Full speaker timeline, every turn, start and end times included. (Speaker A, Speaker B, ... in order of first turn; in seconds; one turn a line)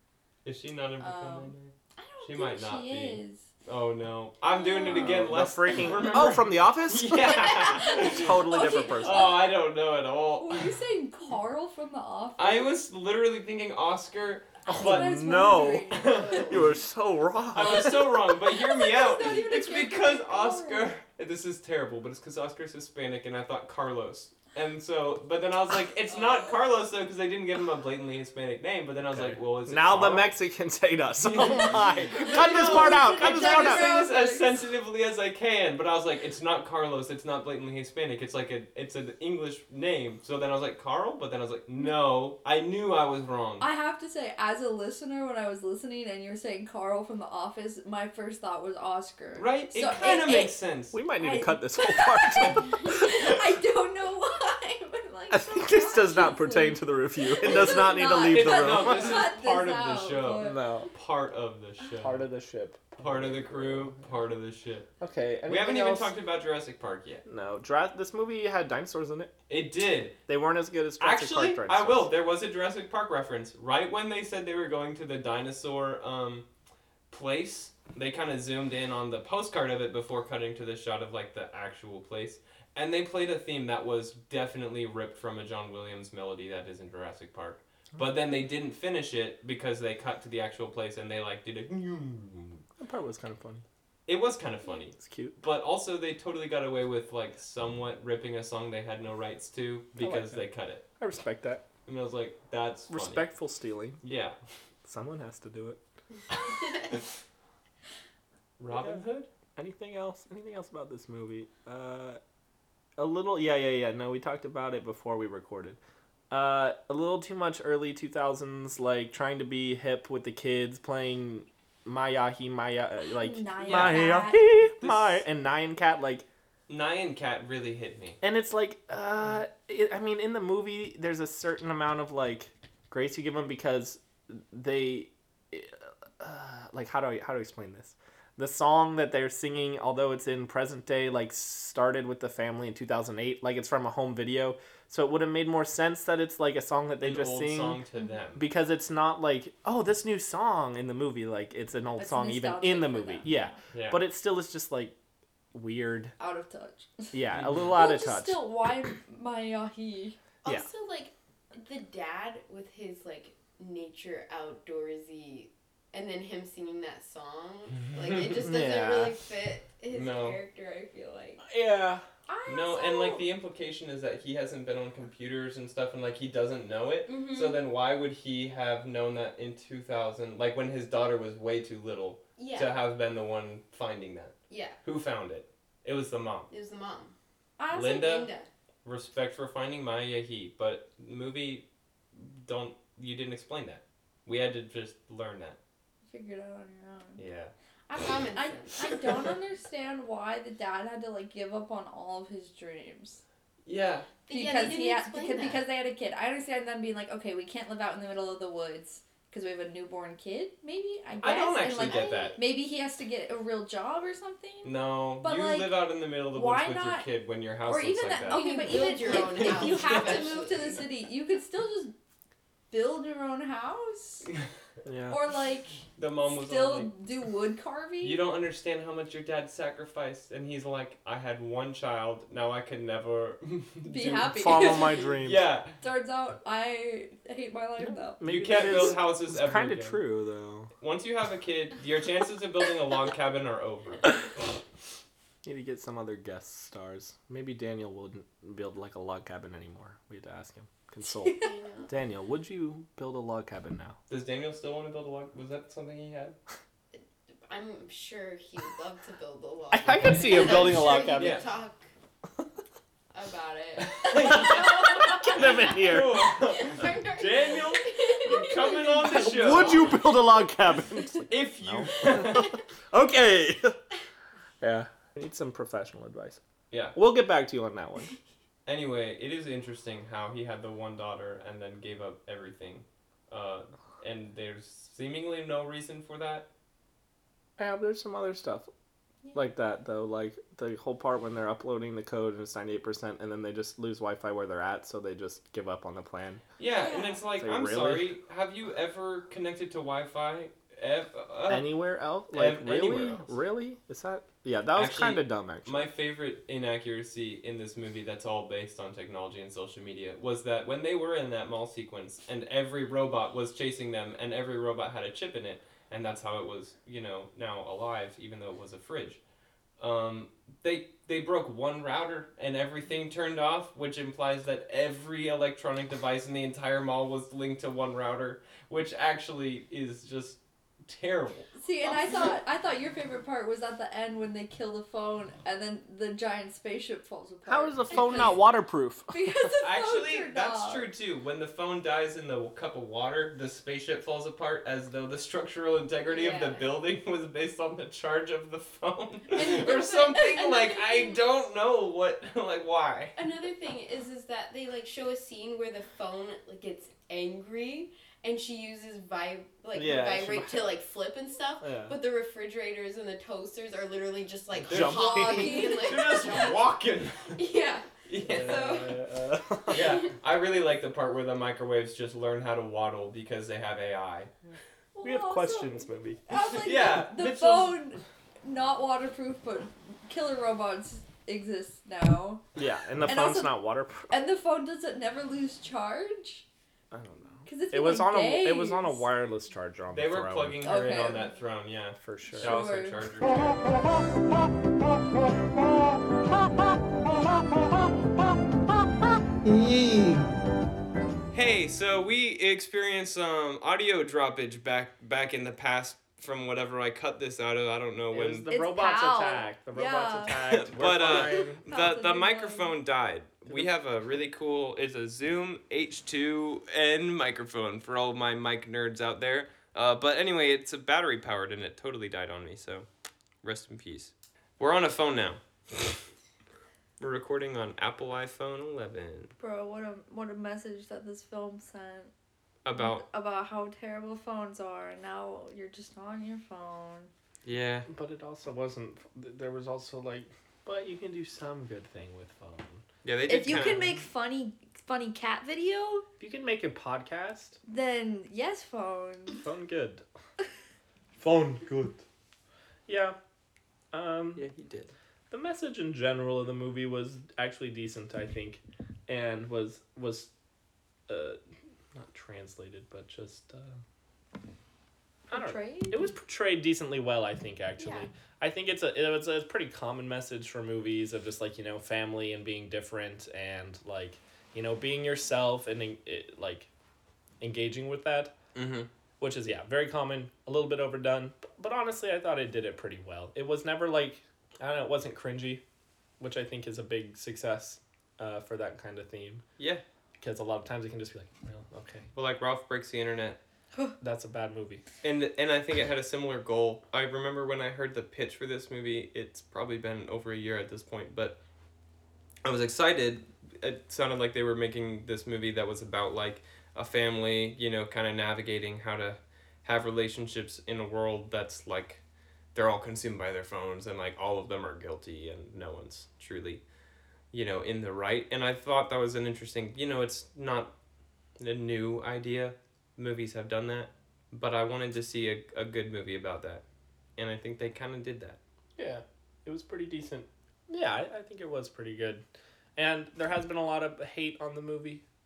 Speaker A: 0.4-10.8
Speaker B: 1.0-3.5
Speaker B: 4.4-6.2
Speaker C: 4.8-9.3
Speaker B: 7.3-9.4
Speaker B: 10.4-12.7
Speaker A: 12.4-15.2
Speaker C: 14.7-18.0
Speaker B: 14.7-16.6
Speaker A: 15.9-16.6
Speaker A: 17.5-30.3
Speaker B: 17.6-20.9
Speaker C: 29.1-34.0
Speaker A: 31.2-43.6
Speaker B: 32.1-34.6
Speaker B: 43.6-50.6
Speaker A: 49.4-51.0
Speaker C: 50.9-53.1
Speaker B: 51.2-60.7
Speaker C: 55.3-59.2
Speaker A: 57.5-62.2
Speaker C: 60.4-60.9
Speaker C: 62.0-64.0
Speaker A: 63.0-64.9
Speaker C: 65.0-66.1
Speaker A: 65.5-67.2
Speaker C: 67.2-69.3
Speaker A: 69.5-70.2
Speaker C: 70.3-72.1
Speaker A: 71.0-76.5
Speaker A: 77.1-92.6
Speaker C: 92.8-93.6
Speaker A: 94.1-100.8
Speaker C: 95.0-95.3
Speaker C: 100.0-100.4
Speaker C: 101.0-101.6
Speaker A: 101.8-103.2
Speaker C: 102.9-104.0
Speaker A: 104.0-104.4
Speaker C: 104.8-105.8
Speaker A: 108.6-109.3
Speaker C: 108.7-109.0
Speaker C: 109.5-112.2
Speaker C: 113.0-115.8
Speaker C: 116.3-126.2
Speaker B: 123.1-124.5
Speaker A: 123.6-125.2
Speaker A: 126.7-128.2
Speaker C: 128.2-147.8
Speaker A: 147.0-148.4
Speaker C: 148.3-154.9
Speaker B: 152.0-153.5
Speaker A: 153.7-154.0
Speaker C: 155.5-156.1
Speaker B: 156.2-160.2
Speaker C: 157.1-158.4
Speaker A: 157.3-157.7
Speaker D: 160.4-171.4
Speaker A: 167.9-168.3
Speaker C: 168.3-169.1
Speaker A: 169.9-170.4
Speaker C: 171.4-172.0
Speaker B: 172.3-173.3
Speaker A: 172.5-186.5
Speaker D: 177.1-177.6
Speaker D: 182.4-182.8
Speaker D: 184.5-184.8
Speaker D: 186.5-187.1
Speaker B: 187.6-188.2
Speaker A: 187.7-188.3
Speaker D: 187.7-188.5
Speaker A: 188.8-195.6
Speaker B: 196.1-197.2
Speaker A: 197.2-197.5
Speaker B: 197.9-203.2
Speaker D: 198.0-199.1
Speaker A: 203.6-204.1
Speaker D: 204.2-205.6
Speaker B: 204.3-215.8
Speaker A: 211.2-212.3
Speaker D: 211.6-212.4
Speaker A: 214.6-220.3
Speaker B: 216.3-217.1
Speaker B: 217.7-221.9
Speaker D: 218.3-220.8
Speaker B: 222.7-224.3
Speaker C: 224.8-225.2
Speaker B: 225.1-228.2
Speaker A: 225.9-226.9
Speaker A: 228.0-235.8
Speaker B: 233.8-235.0
Speaker C: 234.3-235.4
Speaker B: 235.8-238.8
Speaker C: 238.2-240.7
Speaker A: 238.2-240.0
Speaker A: 240.8-244.3
Speaker C: 245.4-254.0
Speaker B: 251.2-251.5
Speaker D: 251.4-251.9
Speaker A: 254.1-256.4
Speaker D: 256.9-261.9
Speaker C: 259.7-261.4
Speaker A: 260.2-261.5
Speaker D: 263.1-270.0
Speaker A: 264.0-270.0
Speaker C: 264.1-266.3
Speaker C: 268.9-273.8
Speaker A: 271.3-272.6
Speaker C: 274.6-276.4
Speaker A: 276.7-277.0
Speaker C: 276.9-278.1
Speaker A: 278.6-286.5
Speaker C: 287.6-288.7
Speaker C: 289.3-296.4
Speaker A: 296.6-301.7
Speaker B: 296.8-297.2
Speaker C: 297.4-298.1
Speaker C: 301.5-305.8
Speaker A: 302.3-303.3
Speaker A: 304.7-319.2
Speaker A: 319.8-331.5
Speaker B: 331.6-338.4
Speaker C: 337.4-339.5
Speaker B: 339.1-340.9
Speaker A: 339.6-353.4
Speaker D: 346.1-346.7
Speaker D: 349.3-351.2
Speaker D: 353.1-366.7
Speaker C: 359.7-360.8
Speaker C: 361.6-362.0
Speaker C: 364.6-365.6
Speaker A: 364.6-367.4
Speaker B: 365.1-366.2
Speaker D: 367.3-367.9
Speaker A: 368.1-368.8
Speaker C: 368.2-370.0
Speaker B: 368.4-369.0
Speaker A: 369.7-374.3
Speaker B: 374.9-382.4
Speaker C: 375.0-376.3
Speaker A: 376.5-377.8
Speaker C: 382.6-384.1
Speaker B: 383.1-386.4
Speaker C: 386.9-390.9
Speaker B: 387.4-389.1
Speaker A: 389.9-393.6
Speaker B: 390.6-391.3
Speaker C: 392.0-392.6
Speaker B: 392.4-393.1
Speaker A: 401.3-408.5
Speaker C: 408.1-411.6
Speaker B: 408.5-410.4
Speaker A: 410.5-422.9
Speaker B: 411.1-412.7
Speaker A: 423.4-425.4
Speaker A: 427.0-429.3
Speaker B: 429.4-432.1
Speaker A: 432.6-433.0
Speaker B: 432.8-437.1
Speaker A: 437.4-437.9
Speaker C: 437.9-442.8
Speaker A: 443.0-443.9
Speaker B: 443.3-446.1
Speaker C: 446.2-447.6
Speaker B: 447.7-449.4
Speaker C: 449.3-450.0
Speaker C: 451.2-452.0
Speaker C: 452.9-453.2
Speaker C: 453.9-454.4
Speaker A: 454.4-454.9
Speaker C: 455.3-460.3
Speaker C: 461.1-461.4
Speaker C: 461.9-463.8
Speaker B: 465.3-466.1
Speaker C: 465.3-476.7
Speaker D: 467.8-468.1
Speaker C: 477.4-478.3
Speaker A: 478.5-478.9
Speaker C: 479.2-485.6
Speaker C: 486.2-489.4
Speaker C: 490.2-492.1
Speaker A: 492.1-493.4
Speaker C: 494.0-494.8
Speaker A: 495.0-501.4
Speaker A: 502.4-512.0
Speaker A: 512.5-516.6
Speaker A: 517.3-520.7
Speaker A: 521.4-526.6
Speaker A: 527.2-528.4
Speaker C: 528.8-532.2
Speaker C: 532.8-535.0